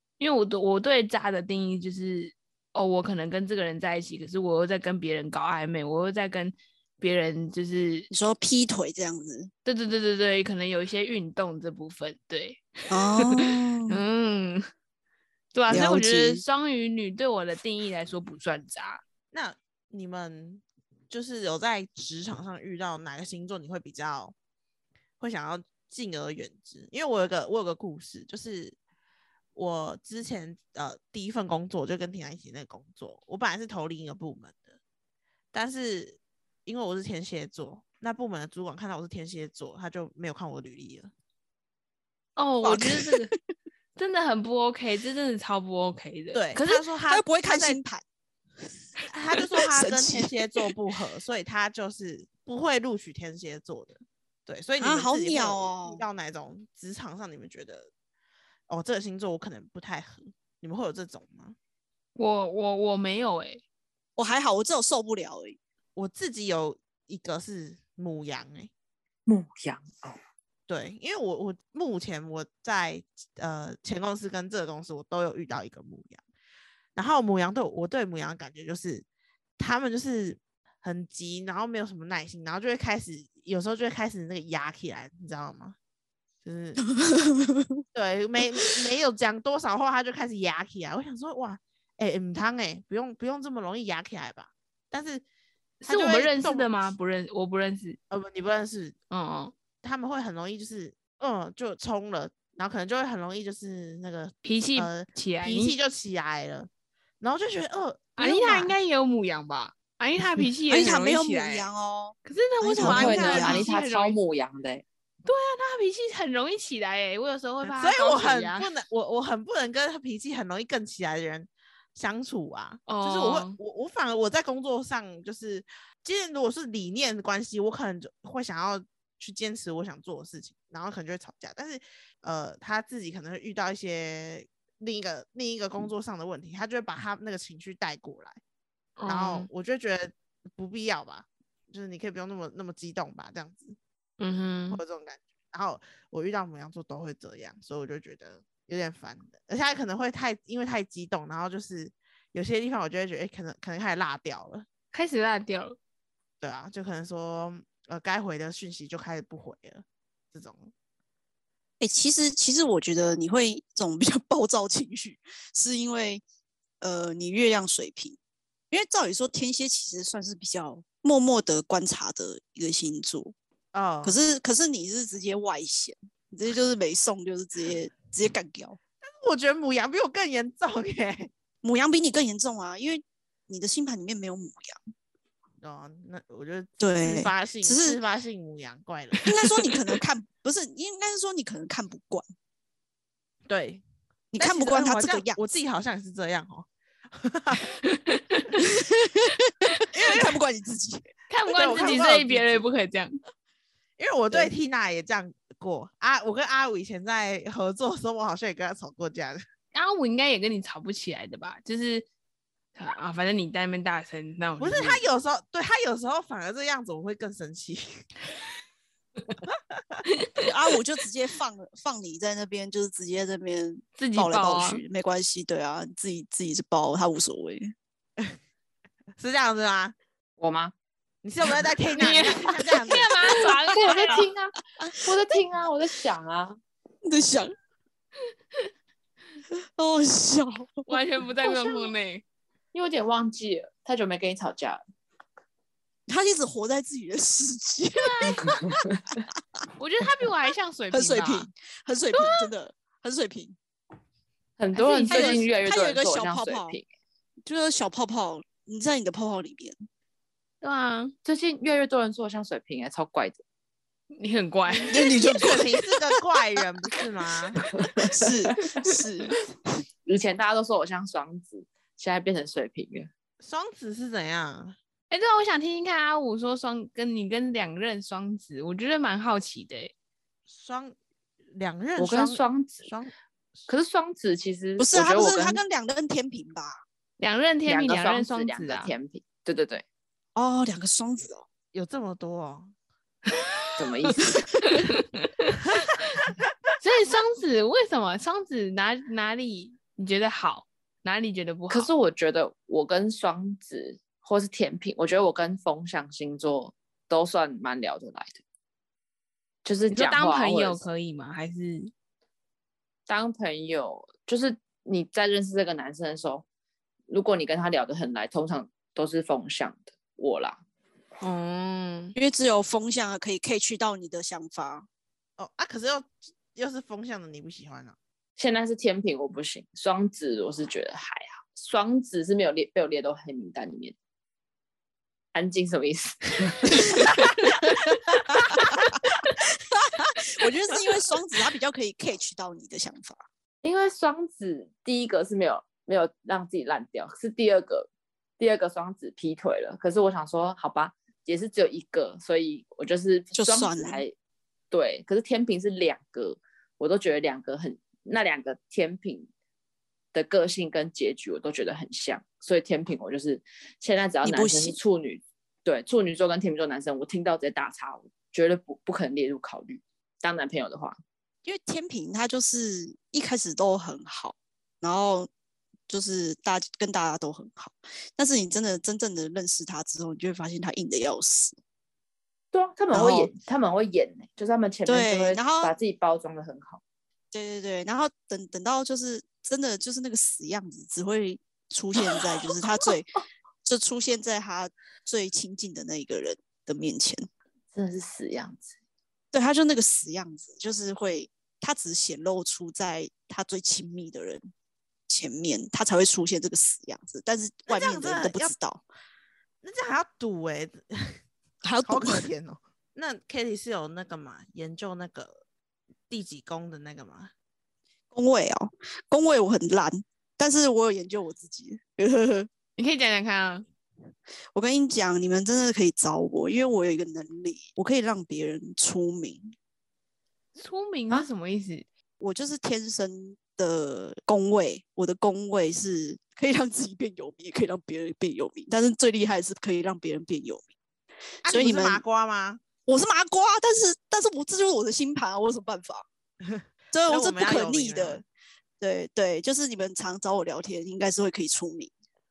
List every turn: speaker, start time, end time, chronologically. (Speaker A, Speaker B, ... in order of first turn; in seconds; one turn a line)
Speaker A: 0.2-8.1
Speaker B: 8.1-9.5
Speaker A: 9.7-14.7
Speaker B: 12.9-14.0
Speaker A: 15.5-19.0
Speaker B: 15.7-16.4
Speaker C: 19.3-24.3
Speaker C: 25.2-28.8
Speaker C: 29.6-34.7
Speaker C: 35.5-41.1
Speaker A: 42.4-43.3
Speaker B: 42.6-43.4
Speaker A: 44.0-46.8
Speaker C: 46.3-47.8
Speaker B: 46.7-48.0
Speaker C: 49.1-57.9
Speaker B: 49.6-50.7
Speaker B: 54.8-56.0
Speaker C: 58.7-61.6
Speaker A: 62.2-63.6
Speaker B: 64.2-65.6
Speaker C: 66.0-68.7
Speaker D: 69.3-70.2
Speaker C: 70.7-76.2
Speaker C: 77.0-79.1
Speaker C: 79.6-85.8
Speaker C: 86.4-86.8
Speaker B: 86.8-87.8
Speaker C: 87.9-95.2
Speaker A: 95.8-98.0
Speaker C: 95.9-96.8
Speaker C: 98.1-99.0
Speaker A: 99.1-99.5
Speaker C: 99.8-106.7
Speaker A: 104.4-105.8
Speaker C: 107.2-108.7
Speaker A: 108.2-111.7
Speaker B: 110.7-113.7
Speaker A: 112.2-114.2
Speaker D: 112.8-114.8
Speaker A: 115.2-118.7
Speaker C: 117.6-138.4
Speaker A: 122.9-123.6
Speaker A: 139.0-139.5
Speaker C: 139.1-143.8
Speaker A: 144.2-144.8
Speaker C: 144.7-154.7
Speaker A: 154.9-155.8
Speaker C: 156.4-160.7
Speaker B: 161.8-166.2
Speaker B: 166.8-168.2
Speaker B: 168.7-173.3
Speaker C: 173.7-174.2
Speaker B: 174.0-178.8
Speaker C: 179.0-181.3
Speaker B: 181.6-184.8
Speaker C: 185.6-189.3
Speaker B: 186.8-188.0
Speaker B: 189.3-192.2
Speaker C: 193.5-193.8
Speaker B: 194.3-195.4
Speaker C: 194.4-197.7
Speaker A: 197.8-198.5
Speaker B: 198.6-199.2
Speaker C: 199.9-200.4
Speaker B: 200.0-201.1
Speaker A: 201.3-203.2
Speaker C: 201.5-202.6
Speaker C: 204.0-209.4
Speaker A: 209.7-212.1
Speaker A: 212.8-215.0
Speaker C: 214.6-218.0
Speaker C: 219.5-220.0
Speaker B: 220.4-227.7
Speaker A: 224.0-224.8
Speaker C: 229.2-229.9
Speaker D: 230.4-230.7
Speaker C: 231.2-233.1
Speaker A: 231.9-234.2
Speaker D: 233.7-236.6
Speaker B: 234.8-235.4
Speaker B: 237.0-237.5
Speaker B: 239.5-240.9
Speaker A: 240.9-242.2
Speaker B: 241.4-241.9
Speaker D: 242.7-244.8
Speaker B: 246.1-248.8
Speaker A: 248.0-248.4
Speaker A: 249.8-251.5
Speaker B: 250.9-253.6
Speaker D: 254.6-256.9
Speaker A: 254.7-255.5
Speaker B: 255.1-256.8
Speaker B: 257.4-259.8
Speaker A: 260.6-261.1
Speaker D: 261.2-263.4
Speaker A: 264.2-265.5
Speaker B: 264.9-265.7
Speaker C: 265.2-267.6
Speaker D: 267.8-268.7
Speaker B: 268.1-269.4
Speaker D: 270.1-273.1
Speaker C: 273.4-274.8
Speaker A: 275.1-279.9
Speaker C: 280.5-281.0
Speaker C: 281.5-283.7
Speaker D: 282.0-282.9
Speaker D: 283.7-285.6
Speaker B: 284.8-286.8
Speaker A: 287.2-288.9
Speaker D: 287.7-289.9
Speaker B: 290.4-291.4
Speaker C: 291.7-292.7
Speaker D: 293.8-294.5
Speaker A: 294.6-295.8
Speaker A: 296.8-301.9
Speaker D: 301.7-308.4
Speaker D: 309.6-310.9
Speaker A: 309.9-311.9
Speaker D: 313.1-316.4
Speaker D: 317.1-320.6
Speaker C: 321.2-322.1
Speaker B: 322.2-324.9
Speaker C: 325.4-328.0
Speaker D: 328.4-333.9
Speaker D: 335.3-337.1
Speaker B: 338.3-338.7
Speaker B: 339.7-343.2
Speaker D: 343.6-347.9
Speaker D: 348.4-354.1
Speaker B: 353.4-354.0
Speaker D: 354.7-359.3
Speaker D: 360.1-371.0
Speaker B: 364.2-364.8
Speaker B: 371.4-375.3
Speaker B: 375.9-381.6
Speaker D: 382.5-386.8
Speaker B: 382.9-383.3
Speaker B: 384.9-385.7
Speaker B: 387.3-393.1
Speaker B: 393.6-397.3
Speaker D: 397.7-398.8
Speaker B: 399.3-404.5
Speaker B: 405.1-408.8
Speaker C: 407.7-408.5
Speaker C: 409.6-411.2
Speaker B: 411.6-412.3
Speaker C: 411.9-415.4
Speaker C: 416.1-417.3
Speaker B: 418.1-422.5
Speaker A: 422.8-423.7
Speaker B: 424.5-429.6
Speaker A: 430.6-431.9
Speaker B: 432.2-440.7
Speaker C: 441.4-442.6
Speaker B: 441.4-442.0
Speaker B: 442.9-446.1
Speaker C: 446.5-448.2
Speaker B: 446.9-448.2
Speaker B: 448.8-451.9